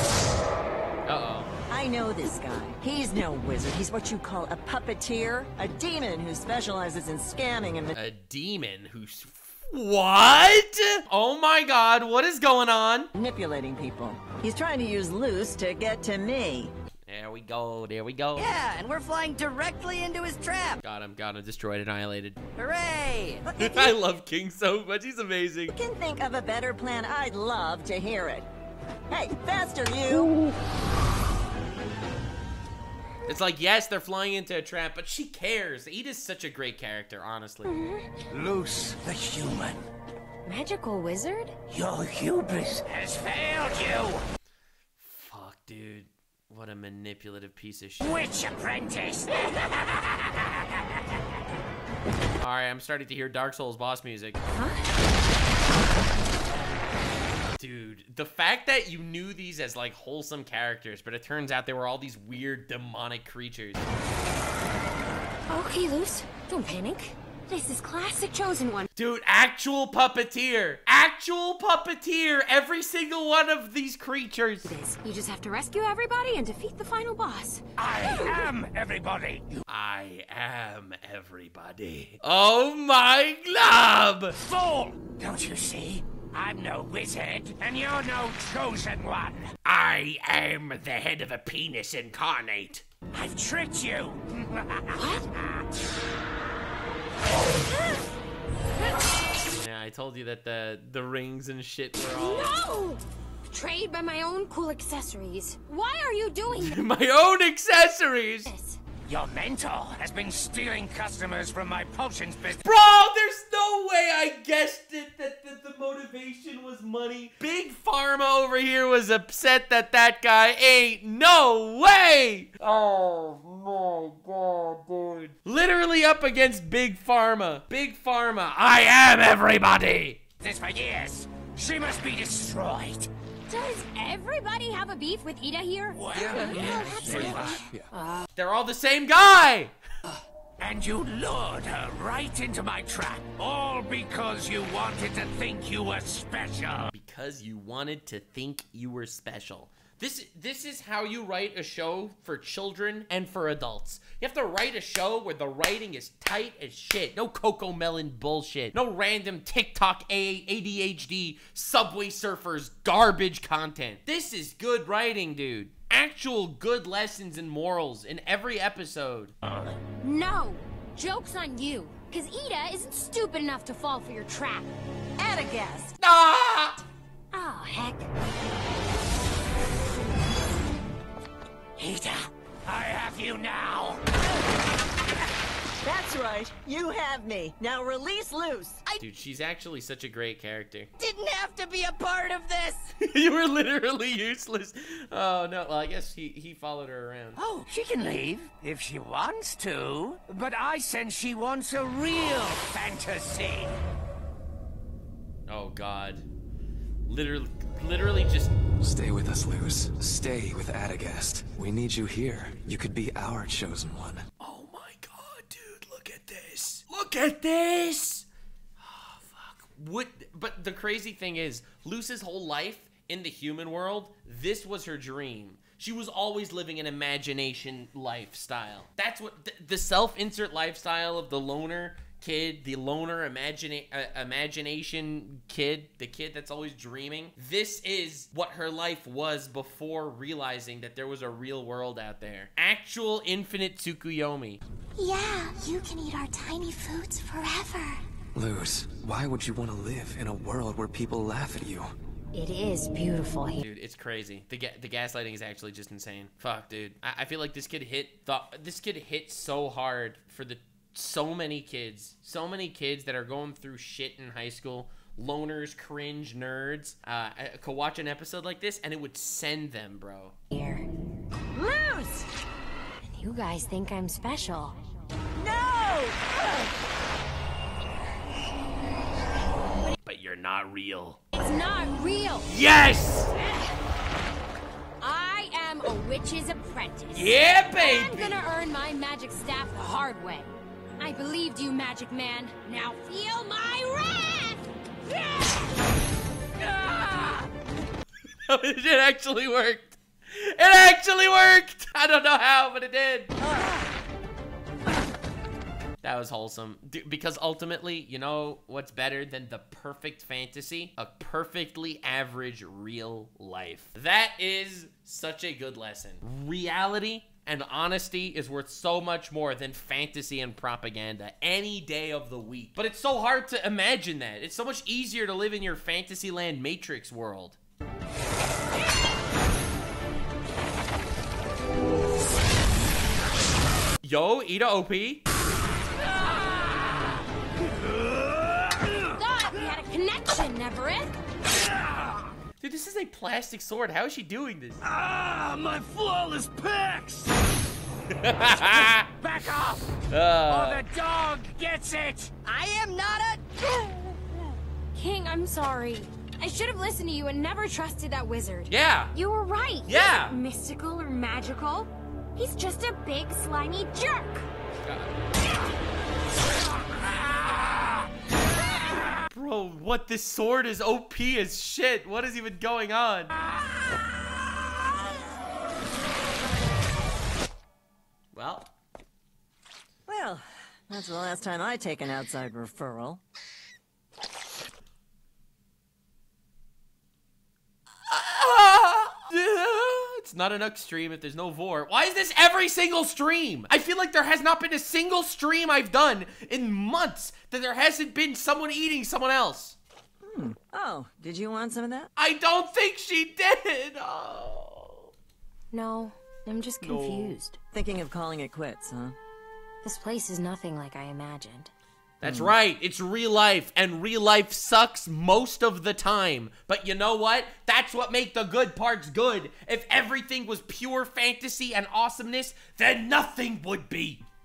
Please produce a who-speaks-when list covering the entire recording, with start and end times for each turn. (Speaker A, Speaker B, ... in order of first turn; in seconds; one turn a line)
Speaker A: 1.1-1.5
Speaker B: 1.7-8.0
Speaker A: 8.0-13.1
Speaker B: 13.1-16.7
Speaker A: 17.1-18.5
Speaker C: 18.4-20.8
Speaker A: 20.8-22.4
Speaker C: 22.6-23.4
Speaker B: 23.4-24.0
Speaker A: 23.6-25.8
Speaker B: 25.7-28.5
Speaker B: 29.1-30.4
Speaker A: 33.3-37.7
Speaker D: 37.6-38.1
Speaker E: 38.3-39.9
Speaker D: 40.5-41.6
Speaker E: 41.7-44.2
Speaker A: 45.0-48.2
Speaker E: 48.0-50.6
Speaker A: 52.4-54.4
Speaker D: 54.6-54.8
Speaker A: 57.6-63.8
Speaker D: 65.5-68.9
Speaker A: 69.0-74.7
Speaker D: 74.6-77.6
Speaker E: 77.8-79.6
Speaker D: 78.2-78.5
Speaker A: 79.7-84.4
Speaker E: 84.4-89.5
Speaker A: 89.6-92.9
Speaker E: 93.1-95.4
Speaker D: 94.9-95.3
Speaker A: 99.5-102.5
Speaker D: 102.1-106.8
Speaker A: 106.5-108.5
Speaker D: 108.5-108.8
Speaker E: 109.1-112.6
Speaker A: 112.6-130.2
Speaker E: 130.4-133.1
Speaker D: 133.5-138.3
Speaker E: 135.9-137.6
Speaker F: 136.1-137.9
Speaker A: 138.4-139.7
Speaker E: 140.6-146.9
Speaker A: 146.9-169.3
Speaker D: 170.0-174.7
Speaker B: 175.2-176.0
Speaker A: 176.0-176.8
Speaker D: 177.3-178.1
Speaker E: 181.8-184.1
Speaker B: 185.8-188.8
Speaker A: 189.0-190.9
Speaker C: 191.0-192.9
Speaker A: 193.0-197.4
Speaker E: 197.4-203.8
Speaker A: 205.5-206.2
Speaker A: 207.1-208.6
Speaker F: 208.8-214.2
Speaker A: 214.4-218.3
Speaker A: 218.8-244.6
Speaker G: 245.0-248.0
Speaker F: 248.3-251.9
Speaker D: 252.3-253.6
Speaker A: 253.6-270.4
Speaker D: 270.5-270.9
Speaker B: 271.5-272.3
Speaker D: 273.0-274.8
Speaker B: 275.4-276.7
Speaker A: 280.1-281.2
Speaker D: 281.4-282.5
Speaker A: 282.5-283.3
Speaker D: 285.0-295.7
Speaker A: 287.1-288.4
Speaker A: 296.6-297.5
Speaker A: 298.5-303.3
Speaker B: 303.4-303.8
Speaker A: 306.0-327.6
Speaker A: 334.0-335.2
Speaker E: 337.8-339.1
Speaker D: 339.1-341.2
Speaker E: 341.8-342.2
Speaker A: 342.6-344.8
Speaker E: 344.8-347.4
Speaker A: 348.1-349.1
Speaker E: 348.4-352.4
Speaker A: 350.1-350.9
Speaker C: 352.4-354.2
Speaker D: 354.9-364.5
Speaker A: 358.7-359.1
Speaker A: 359.9-360.4
Speaker A: 364.8-365.2
Speaker A: 369.3-373.4
Speaker A: 378.3-378.7
Speaker B: 380.1-383.2
Speaker A: 388.1-399.8
Speaker B: 400.2-402.1
Speaker A: 402.2-405.1
Speaker D: 405.7-407.6
Speaker A: 406.8-407.4
Speaker B: 407.7-409.2
Speaker D: 409.8-411.7
Speaker A: 412.2-424.2
Speaker B: 412.2-412.6